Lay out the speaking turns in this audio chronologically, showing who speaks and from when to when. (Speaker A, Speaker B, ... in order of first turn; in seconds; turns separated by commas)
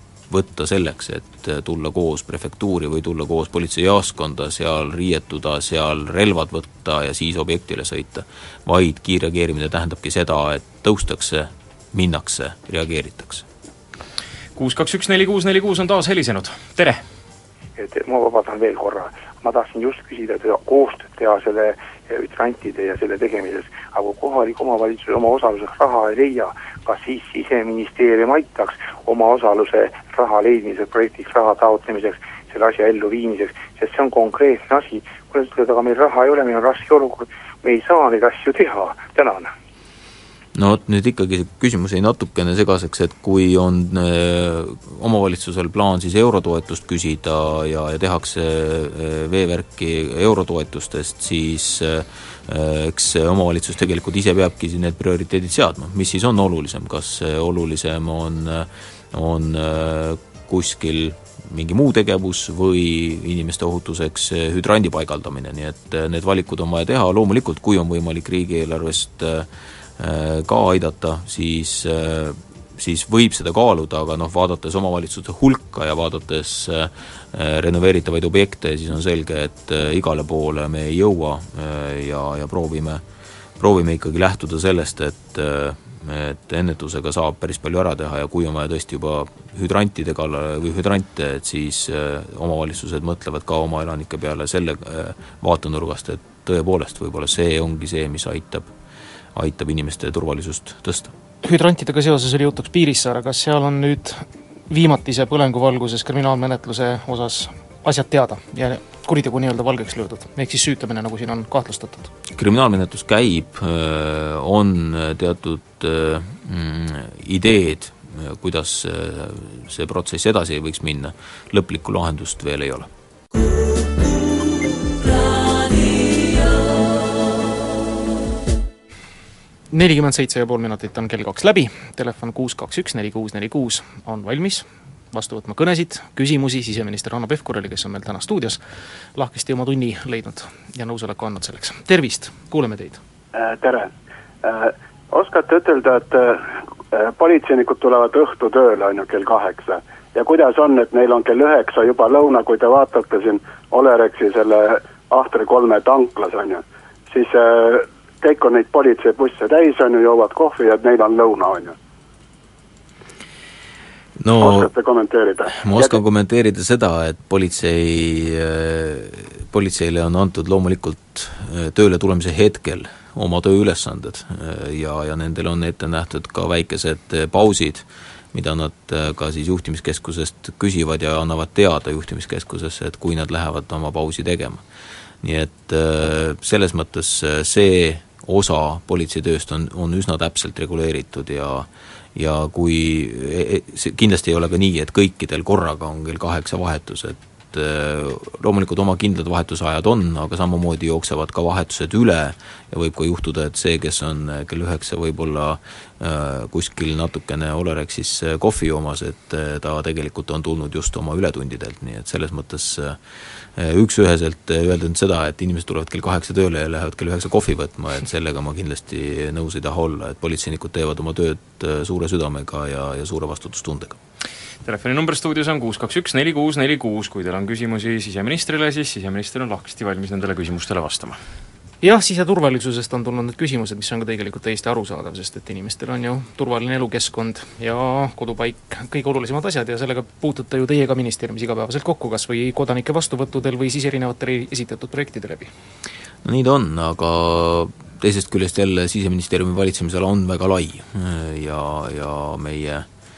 Speaker A: 0.3-13.4, Speaker B: 14.6-17.0, Speaker C: 17.8-39.5, Speaker A: 40.5-83.0, Speaker A: 83.6-98.7, Speaker A: 99.3-101.1, Speaker D: 101.4-112.1, Speaker A: 112.3-122.9, Speaker D: 129.7-138.6, Speaker D: 139.1-143.0, Speaker E: 143.3-143.9, Speaker E: 144.4-161.7, Speaker A: 164.2-164.7, Speaker E: 164.4-166.0, Speaker A: 165.5-184.6, Speaker A: 185.2-213.0, Speaker A: 213.6-224.0, Speaker B: 224.6-231.2, Speaker D: 231.8-245.5, Speaker A: 246.2-252.8